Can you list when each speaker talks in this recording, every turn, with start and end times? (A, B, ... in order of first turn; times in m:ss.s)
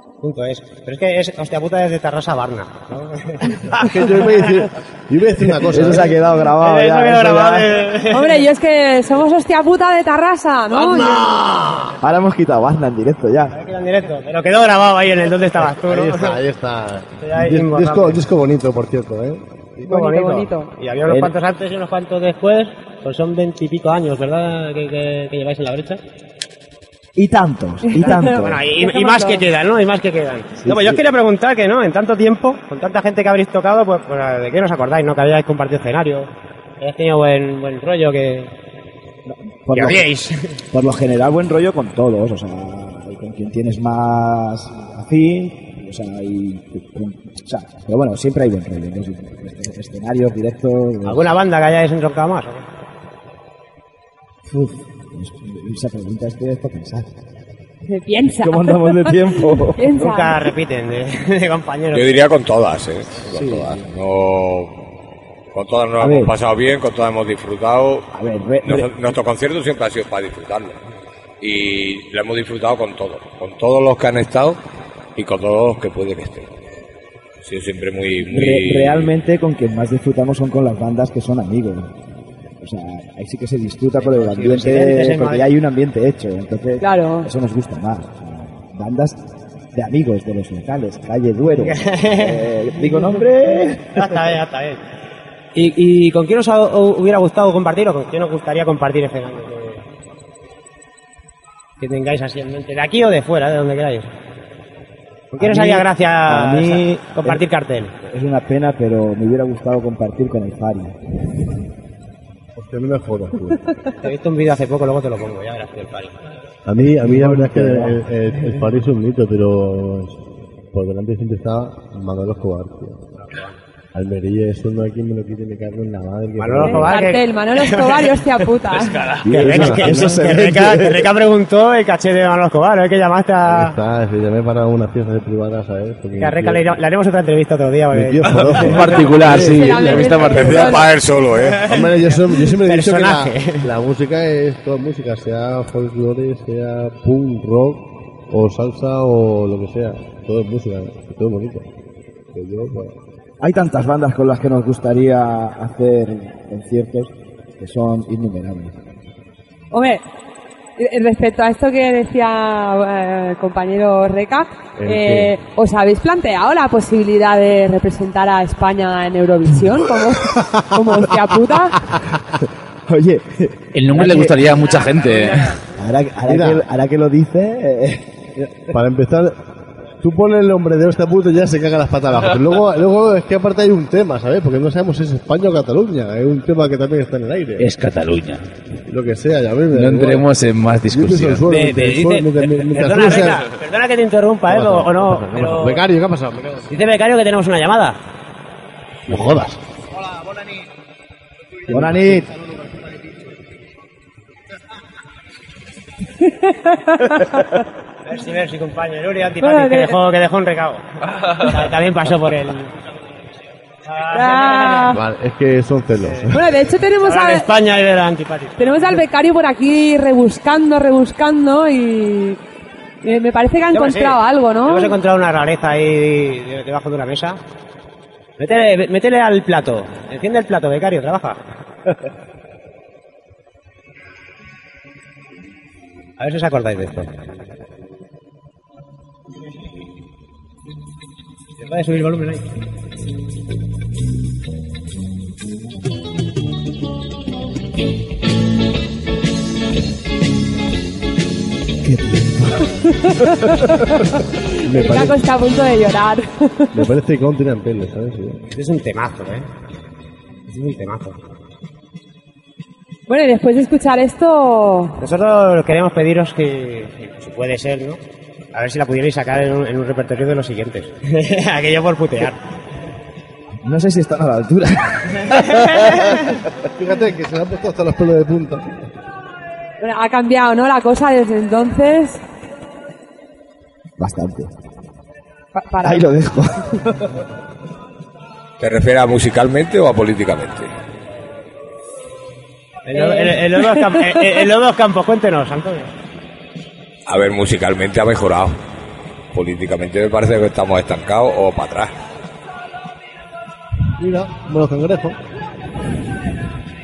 0:00.2-0:03.8 A
0:03.7-0:06.2 B
0:05.7-0:07.8 C
0:06.5-0:08.4 A
0:08.1-0:11.3 D
0:10.8-0:11.9 B
0:12.0-0:13.6 C
0:13.5-0:16.4 A
0:15.8-0:19.4 B
0:17.2-0:18.2 A
0:19.8-0:26.0 A
0:19.8-0:20.7 D
0:21.0-0:21.3 C
0:27.2-0:28.6 C
0:27.8-0:29.4 D
0:28.0-0:38.5 A
0:30.6-0:31.0 C
0:39.3-0:40.0 C
0:39.7-0:40.6 A
0:40.7-0:51.3 C
0:51.0-0:52.6 A
0:54.5-0:57.2 C
0:57.9-1:00.4 D
0:58.4-1:00.0 C
1:00.0-1:02.2 A
1:01.9-1:04.8 E
1:03.3-1:03.8 C
1:05.5-1:08.1 E
1:06.0-1:06.3 C
1:08.1-1:08.9 C
1:08.6-1:10.8 E
1:11.4-1:14.6 E
1:15.2-1:16.5 E
1:17.4-1:19.1 E
1:18.3-1:22.0 C
1:22.6-1:29.2 C
1:24.0-1:25.5 A
1:26.8-1:27.3 D
1:29.7-1:34.1 C
1:31.5-1:32.5 A
1:33.9-1:34.8 A
1:35.5-1:39.8 A
1:41.8-1:44.1 A
1:45.3-1:47.9 A
1:45.4-1:47.4 C
1:48.0-1:51.0 C
1:52.6-1:53.7 B
1:54.0-1:56.2 A
1:56.6-2:00.2 B
1:57.0-1:58.0 C
2:00.7-2:03.0 B
2:03.9-2:07.0 B
2:06.4-2:08.2 A
2:06.6-2:09.0 D
2:09.2-2:11.0 C
2:09.3-2:13.8 A
2:09.5-2:10.2 B
2:13.4-2:16.7 B
2:16.2-2:19.2 A
2:17.9-2:20.6 B
2:18.5-2:20.7 F
2:19.2-2:20.9 D
2:20.3-2:21.7 E
2:21.5-2:21.9 A
2:21.6-2:31.7 B
2:22.6-2:23.7 A
2:32.3-2:33.0 B
2:33.4-2:38.8 C
2:39.7-2:40.0 D
2:40.8-2:51.8 D
2:44.8-2:45.3 B
2:52.9-2:54.4 C
2:53.7-2:55.5 F
2:54.5-2:55.6 A
2:55.8-2:58.0 C
2:56.2-2:56.6 B
2:58.4-2:59.4 B
3:00.0-3:07.7 B
3:07.6-3:08.4 F
3:08.8-3:10.3 B
3:09.7-3:11.4 F
3:10.8-3:13.4 B
3:11.5-3:15.8 A
3:14.5-3:16.7 B
3:16.7-3:18.0 A
3:19.1-3:19.6 B
3:21.7-3:22.7 B
3:21.7-3:22.3 C
3:26.4-3:27.5 D
3:28.0-3:32.7 A
3:29.4-3:30.0 D
3:33.8-3:34.9 A
3:34.1-3:35.0 D
3:34.8-3:36.4 B
3:36.3-3:37.5 D
3:37.0-3:39.0 A
3:38.6-3:42.4 D
3:43.0-3:44.9 D
3:43.7-3:47.4 A
3:48.4-3:51.4 A
3:56.2-3:57.1 A
4:01.6-4:02.4 A
4:11.8-4:12.8 C
4:12.9-4:16.8 D
4:14.6-4:15.2 B
4:16.7-4:18.4 B
4:18.5-4:19.5 A
4:20.5-4:21.2 A
4:23.1-4:25.0 D
4:25.0-4:28.0 A
4:28.5-4:32.4 A
4:33.6-4:36.0 C
4:36.7-4:38.8 B
4:39.8-4:42.2 D
4:44.0-4:44.5 C
4:45.5-4:46.0 D
4:45.8-4:47.1 C
4:48.6-4:50.7 E
4:52.9-4:55.9 A
4:52.9-4:54.2 D
4:57.1-4:58.6 E
4:59.3-5:01.9 E
5:04.0-5:05.2 B